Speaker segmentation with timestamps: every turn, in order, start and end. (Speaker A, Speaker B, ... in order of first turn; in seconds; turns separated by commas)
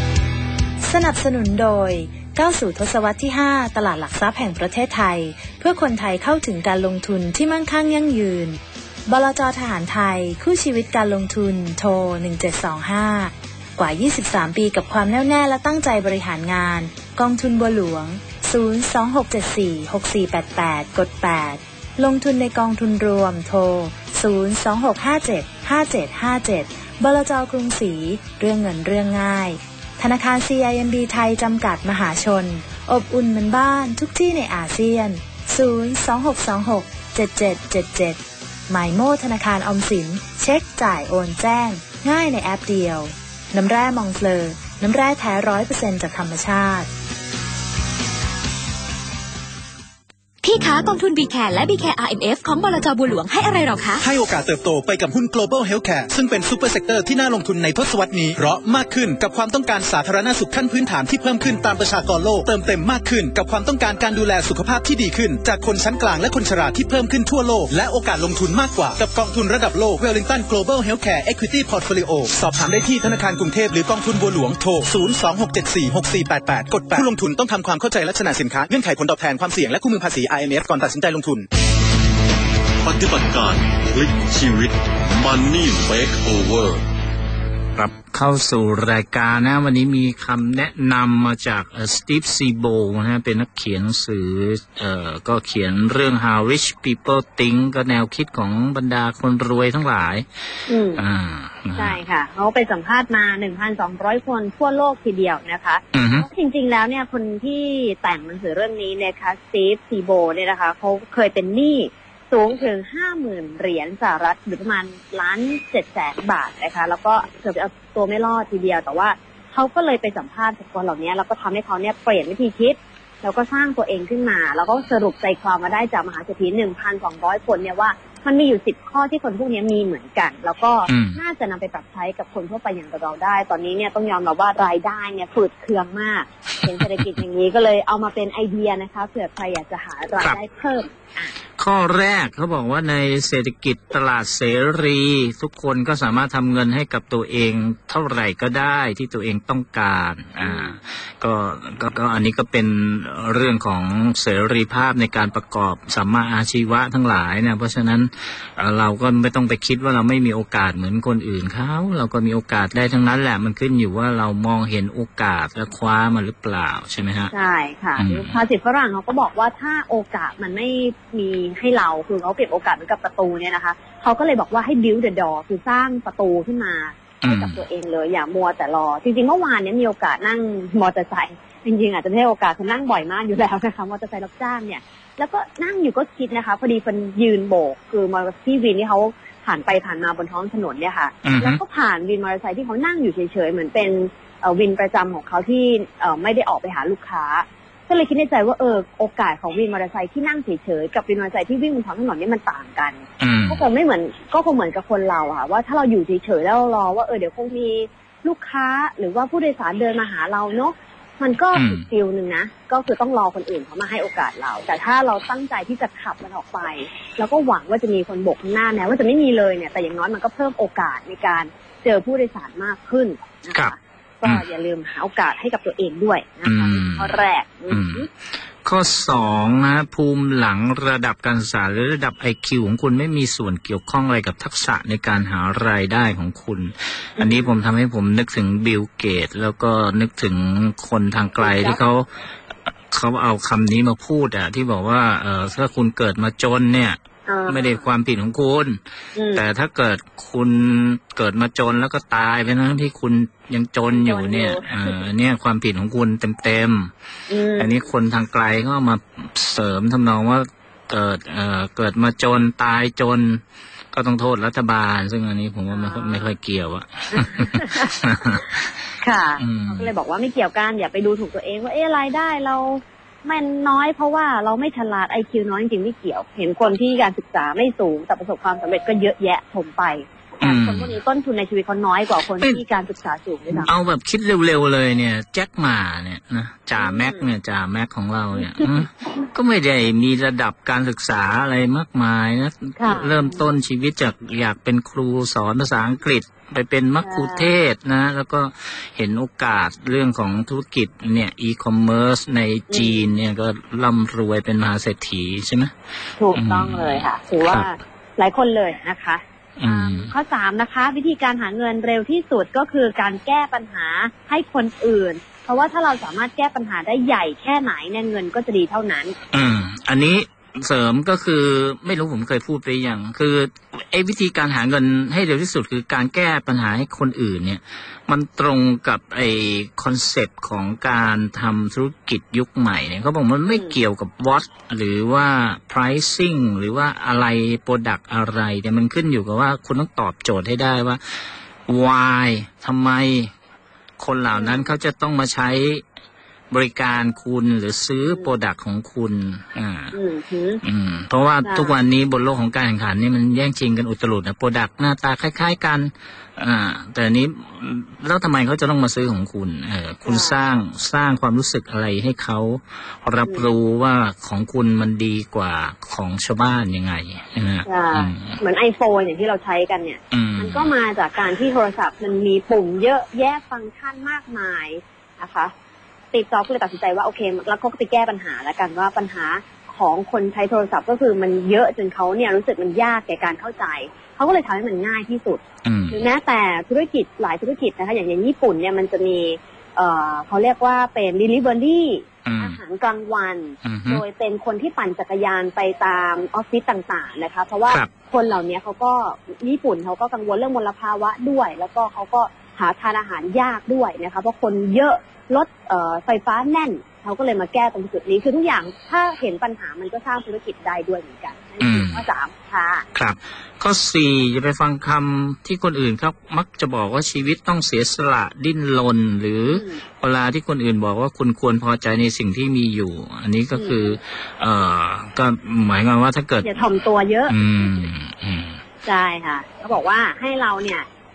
Speaker A: 0.8-46.9, Speaker B: 50.4-54.0, Speaker C: 54.0-81.5, Speaker D: 82.8-86.8, Speaker E: 87.8-102.0, Speaker F: 100.7-101.0, Speaker F: 101.8-141.3, Speaker E: 105.9-106.3, Speaker E: 130.9-131.2, Speaker E: 136.8-137.1, Speaker E: 141.6-167.3, Speaker F: 150.4-150.8, Speaker F: 167.3-228.1, Speaker E: 168.0-168.3, Speaker E: 177.2-177.6, Speaker E: 191.2-191.6, Speaker E: 203.2-203.6, Speaker E: 211.5-211.8, Speaker E: 223.5-224.4, Speaker E: 226.4-228.1, Speaker E: 228.6-242.1, Speaker F: 237.2-237.5, Speaker F: 241.4-241.8, Speaker E: 242.9-248.8, Speaker F: 247.3-247.8, Speaker F: 249.2-249.4, Speaker E: 249.3-256.9, Speaker F: 253.9-255.0, Speaker F: 257.3-257.9, Speaker E: 257.6-263.4, Speaker E: 263.9-268.7, Speaker F: 265.7-266.2, Speaker F: 267.1-268.4, Speaker F: 269.0-283.7, Speaker E: 269.4-269.9, Speaker E: 280.4-281.0, Speaker E: 283.6-305.7, Speaker F: 286.8-287.2, Speaker F: 288.4-288.6, Speaker F: 292.8-293.4, Speaker F: 297.0-297.5, Speaker F: 302.7-303.1, Speaker F: 306.2-319.1, Speaker E: 306.3-307.7, Speaker E: 309.6-310.1, Speaker E: 319.3-343.3, Speaker F: 333.5-333.7, Speaker E: 344.0-345.8, Speaker F: 344.3-344.7, Speaker E: 346.5-349.9, Speaker F: 349.9-350.6, Speaker E: 350.6-368.4, Speaker F: 351.4-351.7, Speaker F: 360.1-360.4, Speaker F: 367.6-375.5, Speaker E: 370.1-370.7, Speaker F: 376.1-412.9, Speaker E: 385.6-386.0, Speaker E: 392.2-392.6, Speaker E: 393.6-394.0, Speaker E: 411.6-412.0, Speaker E: 412.9-426.7, Speaker F: 419.5-419.8, Speaker F: 423.6-424.0, Speaker F: 426.4-427.9, Speaker E: 427.3-428.6, Speaker F: 428.8-430.9